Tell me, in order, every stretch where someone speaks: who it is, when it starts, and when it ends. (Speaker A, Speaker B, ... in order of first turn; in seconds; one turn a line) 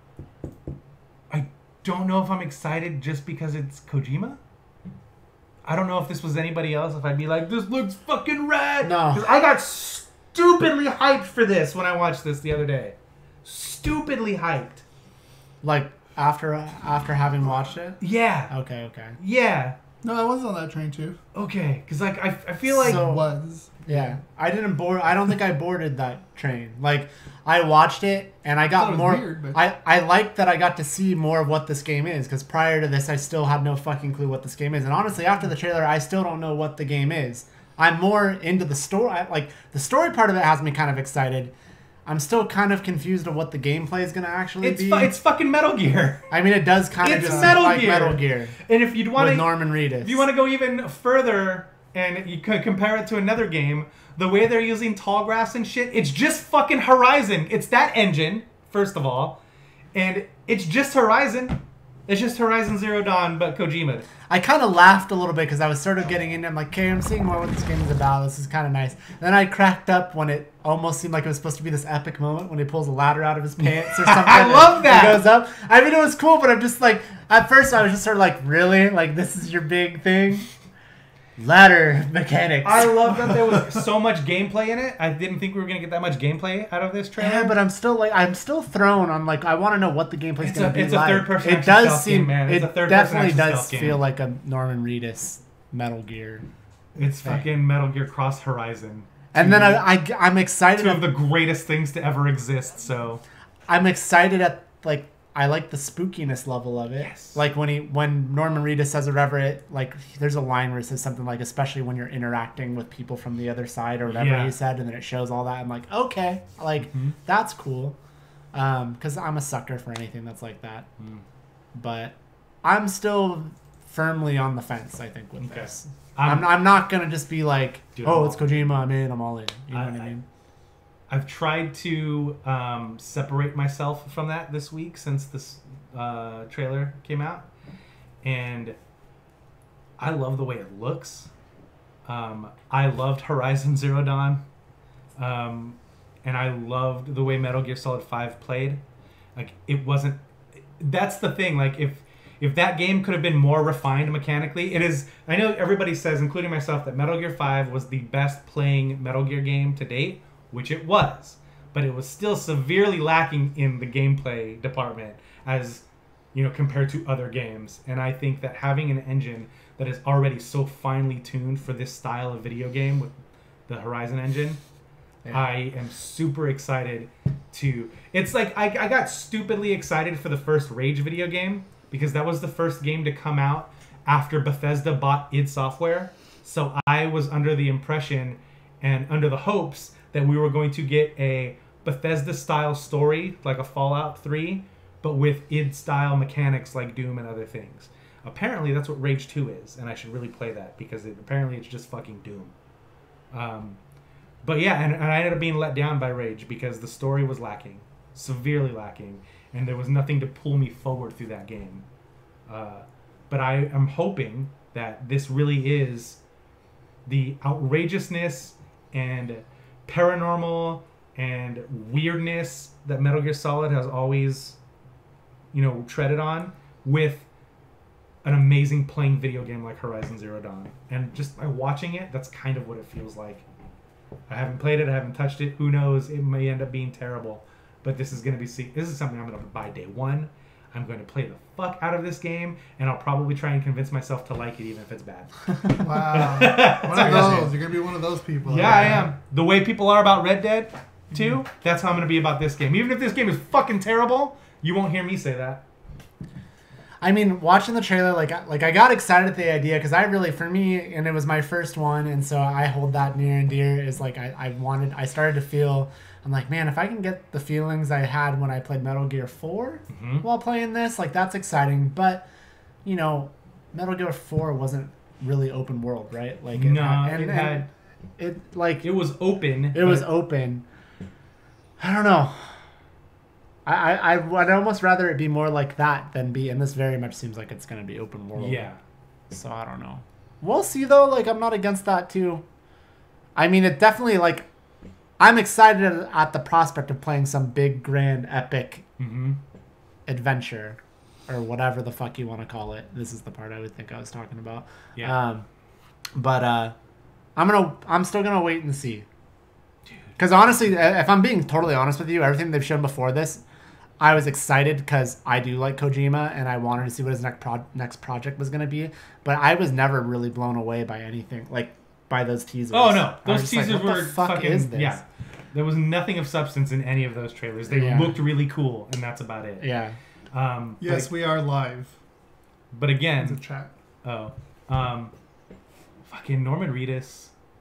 Speaker A: 1.3-4.4
Speaker A: 5.6-14.8
Speaker B: 8.8-9.2
Speaker B: 15.6-19.2
Speaker A: 18.0-18.5
Speaker A: 19.2-19.8
Speaker C: 20.0-21.2
Speaker A: 21.4-23.0
Speaker C: 22.7-24.1
Speaker B: 22.8-23.3
Speaker B: 23.9-41.5
Speaker C: 28.7-29.6
Speaker B: 42.1-45.1
Speaker A: 44.6-46.3
Speaker B: 46.3-48.6
Speaker A: 47.0-59.4
Speaker C: 47.2-47.6
Speaker B: 49.1-50.3
Speaker A: 60.0-64.1
Speaker B: 64.3-80.5
Speaker A: 73.9-75.2
Speaker B: 81.4-83.2
Speaker A: 82.6-87.6
Speaker B: 87.2-96.5
Speaker A: 90.4-94.0
Speaker A: 97.0-99.9
Speaker B: 97.2-97.5
Speaker B: 99.3-101.1
Speaker A: 100.8-103.2
Speaker B: 103.7-118.0
Speaker A: 107.0-107.4
Speaker A: 114.1-114.6
Speaker A: 116.8-117.1
Speaker B: 118.5-120.9
Speaker B: 121.7-130.2
Speaker A: 125.4-126.5
Speaker A: 128.0-128.8
Speaker A: 129.7-130.1
Speaker A: 131.1-137.5
Speaker A: 138.2-138.8
Speaker A: 140.0-141.3
Speaker A: 142.1-144.4
Speaker A: 145.2-148.8
Speaker A: 149.4-150.2
Speaker A: 150.8-173.1
Speaker A: 173.7-174.6
Speaker A: 175.3-202.5
Speaker A: 203.3-203.8
Speaker A: 204.4-211.8
Speaker A: 212.5-216.2
Speaker A: 217.1-224.6
Speaker A: 225.5-227.3
Speaker A: 228.2-233.5
Speaker A: 234.3-247.5
Speaker C: 245.7-249.1
Speaker B: 246.9-247.4
Speaker A: 248.4-255.7
Speaker B: 257.0-272.3
Speaker A: 269.9-270.2
Speaker B: 272.8-278.9
Speaker A: 276.5-277.7
Speaker A: 278.8-280.1
Speaker B: 279.7-280.6
Speaker B: 281.8-282.6
Speaker B: 283.7-288.7
Speaker A: 288.4-288.8
Speaker B: 289.3-292.4
Speaker B: 293.4-294.5
Speaker B: 295.2-298.9
Speaker A: 299.0-299.4
Speaker B: 300.1-305.4
Speaker B: 306.2-306.7
Speaker B: 307.4-309.1
Speaker A: 309.9-310.2
Speaker B: 310.2-313.4
Speaker B: 314.0-325.0
Speaker A: 322.7-329.7
Speaker B: 327.7-328.2
Speaker B: 329.6-330.0
Speaker A: 330.3-331.1
Speaker C: 330.8-331.9
Speaker A: 332.7-333.4
Speaker C: 333.2-333.7
Speaker A: 334.0-335.1
Speaker A: 336.1-337.3